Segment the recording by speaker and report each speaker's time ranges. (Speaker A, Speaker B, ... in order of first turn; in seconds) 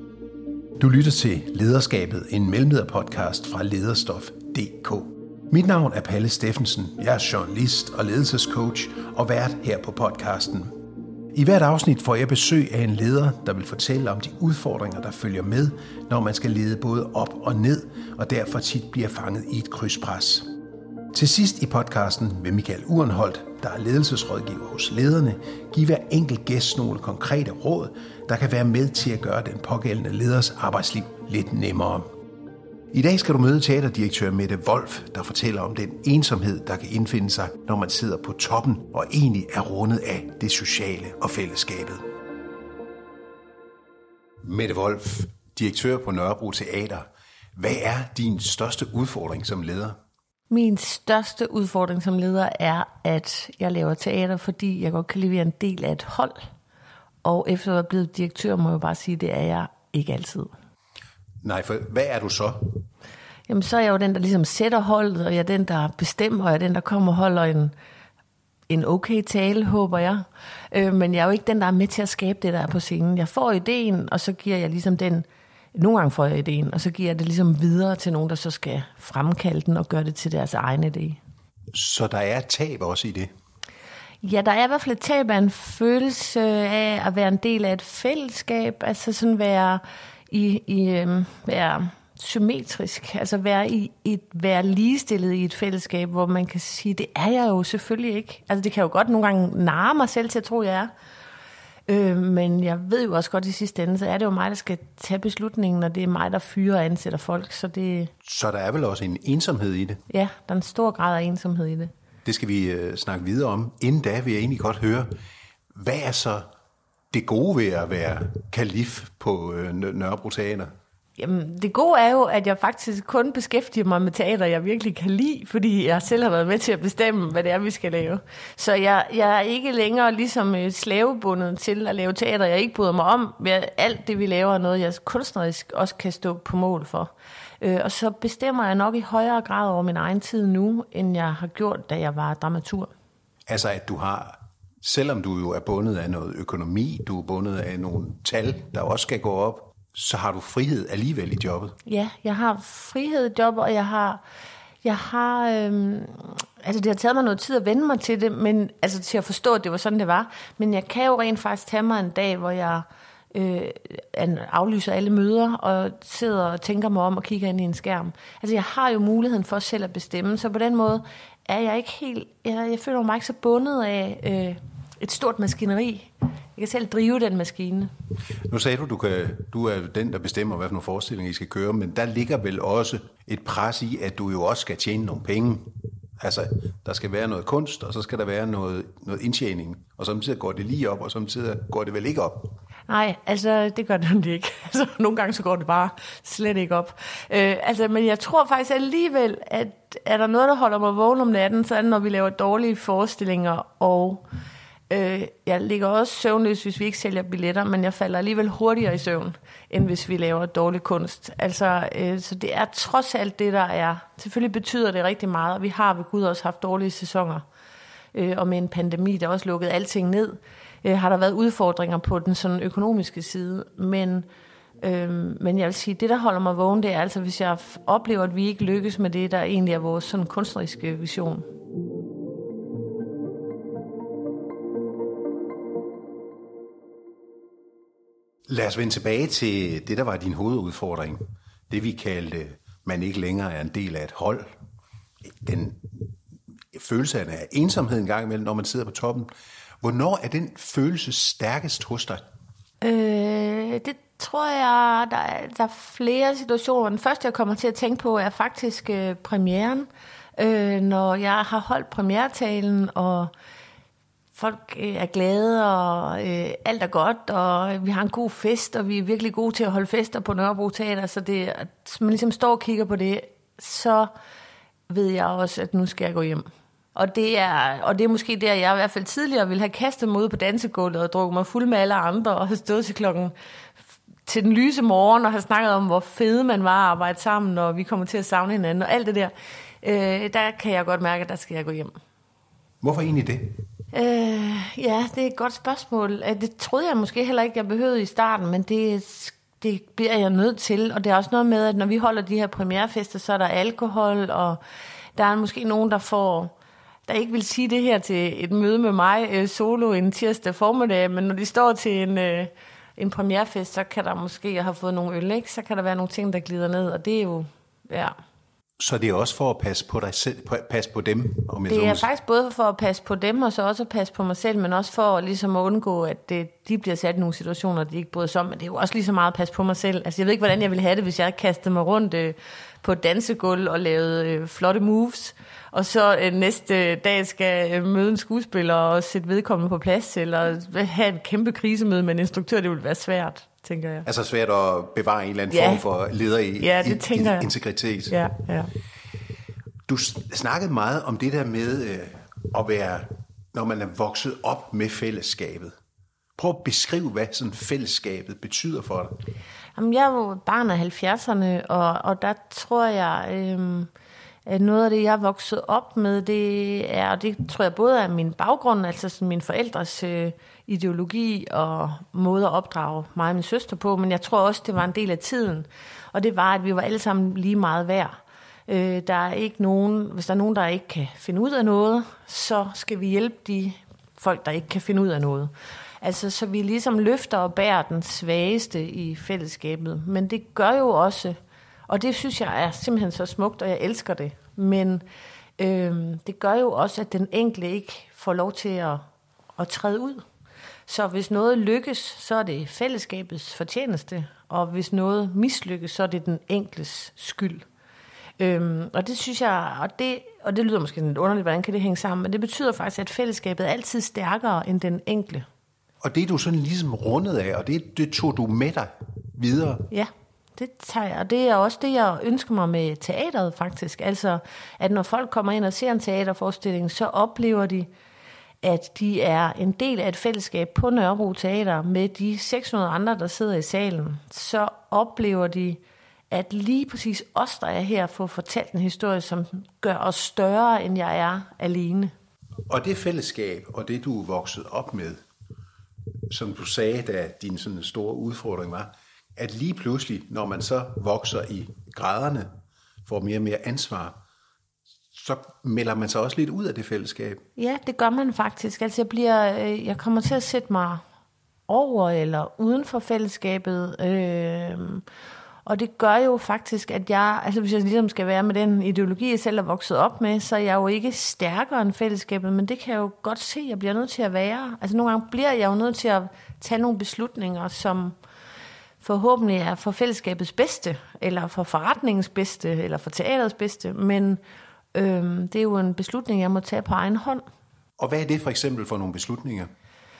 Speaker A: 0.8-10.7, 11.3-20.5, 21.1-32.1, 32.9-42.0, 44.4-50.0, 61.4-62.8, 81.7-83.3, 108.2-110.0, 112.2-115.1, 115.7-116.5, 117.1-120.7, 143.5-151.8, 178.5-192.5, 238.5-244.5, 245.3-246.0, 246.7-249.3, 249.8-252.2, 292.8-293.6, 318.8-322.1, 344.0-348.2, 349.9-355.7, 356.4-359.1, 416.0-419.9, 442.7-445.2, 446.3-452.5, 453.1-454.2, 455.1-457.4, 488.0-489.7
Speaker B: 50.5-56.4, 57.2-60.5, 63.5-67.7, 68.7-81.2, 84.2-100.9, 101.9-108.1, 110.1-111.9, 121.2-142.9, 151.8-154.2, 154.8-177.9, 192.9-204.2, 204.9-217.4, 218.1-224.2, 224.8-231.4, 252.8-263.3, 264.3-274.1, 274.9-283.3, 284.2-291.9, 293.9-304.6, 305.1-306.5, 307.1-318.1, 321.7-344.1, 345.5-345.8, 346.6-347.5, 348.1-348.7, 359.8-363.9, 364.4-378.1, 378.7-391.4, 391.9-395.0, 395.6-399.0, 399.6-400.2, 400.9-407.6, 408.4-415.5, 419.9-427.9, 428.6-442.1, 457.6-461.0, 461.7-465.0, 465.6-478.1, 479.0-484.4, 484.9-487.4